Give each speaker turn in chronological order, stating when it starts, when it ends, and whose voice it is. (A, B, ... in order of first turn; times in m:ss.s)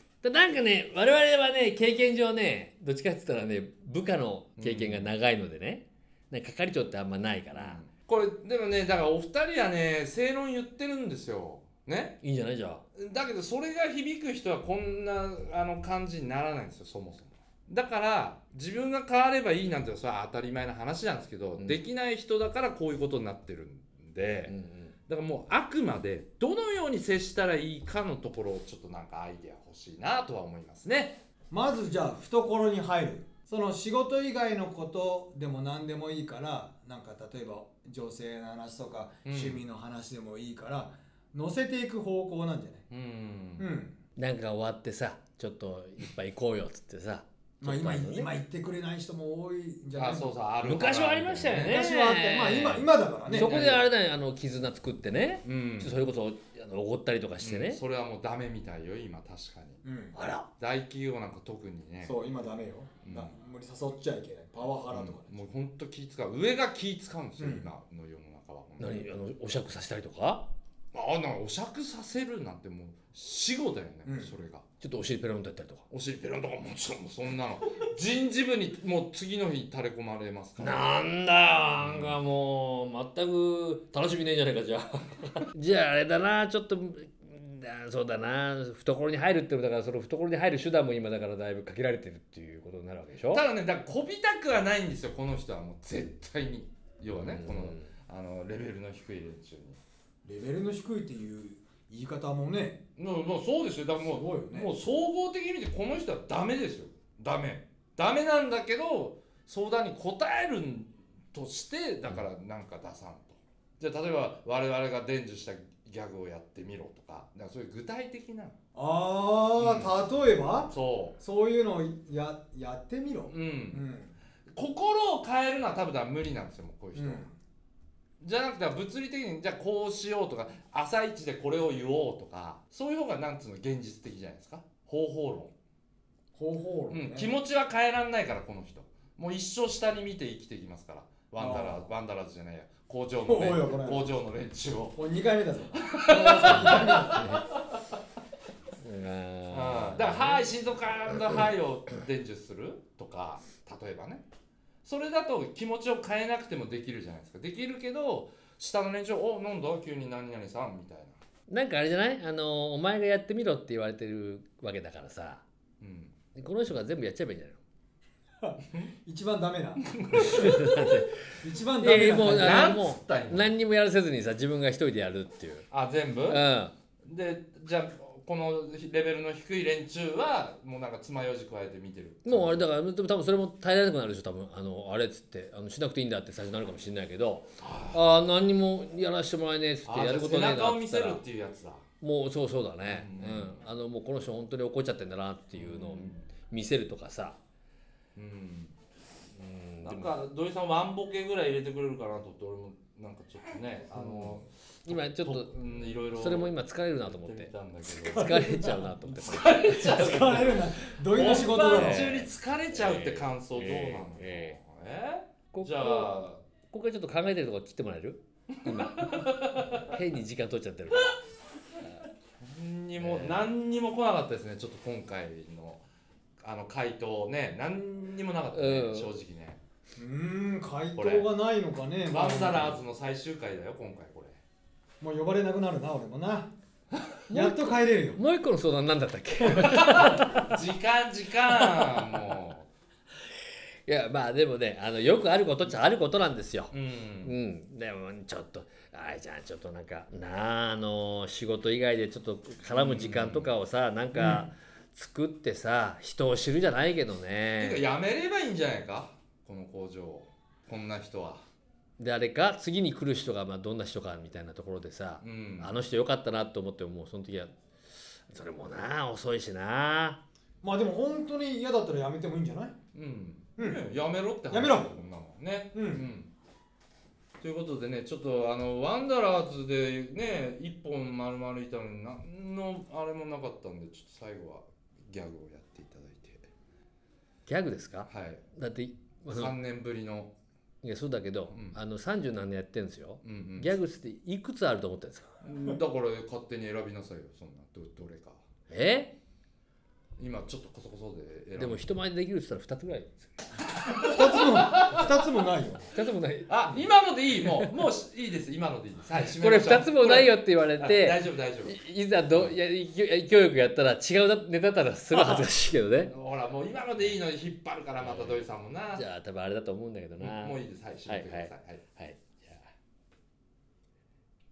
0:00.2-0:07.8 A
0:04.6-0:05.1 B
0:07.5-0:12.2 B
0:12.2-0:12.8 A
0:13.0-0:24.5 B
0:24.5-0:25.0 A
0:25.1-0:31.2 B
0:31.5-0:42.8 C
0:39.2-0:39.6 B
0:42.9-0:43.7 B
0:43.6-0:44.0 C
0:44.2-0:48.3 A
0:47.6-0:50.3 C
0:50.0-0:51.8 B
0:50.6-0:57.8 A
0:51.6-0:53.7 C
0:53.3-0:53.9 B
0:55.4-0:56.0 B
0:57.4-0:59.8 B
0:59.8-1:00.2 C
1:00.1-1:00.5 A
1:00.6-1:02.2 B
1:02.0-1:05.4 C
1:03.0-1:03.3 B
1:04.9-1:09.0 B
1:07.4-1:07.7 C
1:08.8-1:10.5 A
1:10.9-1:14.7 B
1:14.0-1:14.3 C
1:14.8-1:15.8 A
1:15.9-1:20.9 B
1:20.6-1:33.4 A
1:21.8-1:22.2 B
1:33.3-1:39.8 B
1:37.1-1:37.9 A
1:40.2-1:42.8 C
1:43.0-1:58.6 B
1:44.0-1:44.7 C
1:58.8-2:04.1 C
1:59.6-2:00.0 B
2:00.7-2:01.2 B
2:03.3-2:03.9 B
2:04.5-2:07.3 B
2:07.0-2:07.4 C
2:08.2-2:15.5 B
2:16.4-2:17.3 C
2:16.9-2:25.0 B
2:21.4-2:21.9 C
2:23.3-2:24.1 C
2:25.0-2:27.3 C
2:25.7-2:27.5 B
2:26.4-2:27.4 A
2:28.8-2:30.5 A
2:29.5-2:34.2 B
2:34.8-2:41.2 B
2:41.5-2:45.4 A
2:45.8-2:46.1 B
2:46.4-2:47.6 A
2:48.4-2:50.6 C
2:49.8-2:51.1 B
2:50.2-2:51.1 A
2:51.4-2:52.7 C
2:51.8-2:55.7 A
2:52.2-2:53.6 B
2:55.7-2:56.4 B
2:56.3-2:56.7 A
2:57.0-3:02.7 B
3:02.2-3:11.2 A
3:07.6-3:08.2 B
3:09.8-3:11.8 B
3:12.0-3:17.4 A
3:12.8-3:13.6 B
3:15.5-3:16.3 B
3:18.2-3:18.8 B
3:19.3-3:20.1 A
3:19.8-3:36.4 B
3:23.9-3:25.5 A
3:26.1-3:27.5 A
3:28.1-3:30.5 A
3:28.1-3:28.8 C
3:29.8-3:32.1 C
3:31.2-3:34.6 A
3:35.5-3:41.2 A
3:38.7-3:39.8 B
3:42.4-3:45.8 B
3:43.0-3:43.4 A
3:46.4-3:49.6 B
3:48.5-3:49.1 A
3:50.0-3:52.8 C
3:51.0-3:51.3 B
3:52.1-3:54.4 B
3:55.0-3:56.5 C
3:57.3-4:00.6 A
3:57.3-3:58.2 C
3:59.5-4:02.7 B
4:01.5-4:02.1 A
4:03.9-4:17.8 A
4:06.7-4:07.4 B
4:12.7-4:13.5 B
4:14.2-4:14.4 B
4:17.6-4:21.4 B
4:22.0-4:27.5 A
4:25.2-4:25.8 B
4:28.3-4:30.2 A
4:30.6-4:32.8 C
4:32.9-4:36.3 B
4:33.6-4:33.9 C
4:34.5-4:35.0 C
4:35.7-4:36.0 C
4:37.4-4:46.5 B
4:47.5-4:49.6 A
4:48.1-4:48.5 B
4:49.3-4:50.4 B
4:50.8-4:55.3 A
4:51.5-4:51.8 B
4:53.2-4:53.8 B
4:55.4-4:58.4 B
4:58.7-4:59.2 A
5:00.2-5:01.9 B
5:01.6-5:03.3 A
5:03.9-5:05.1 B
5:04.0-5:05.9 C
5:05.9-5:06.8 A
5:06.5-5:11.8 B
5:07.4-5:07.7 A
5:09.4-5:16.1 A
5:15.1-5:15.5 C
5:16.1-5:19.0 B
5:18.0-5:18.4 A
5:19.0-5:22.7 A
5:20.2-5:21.8 B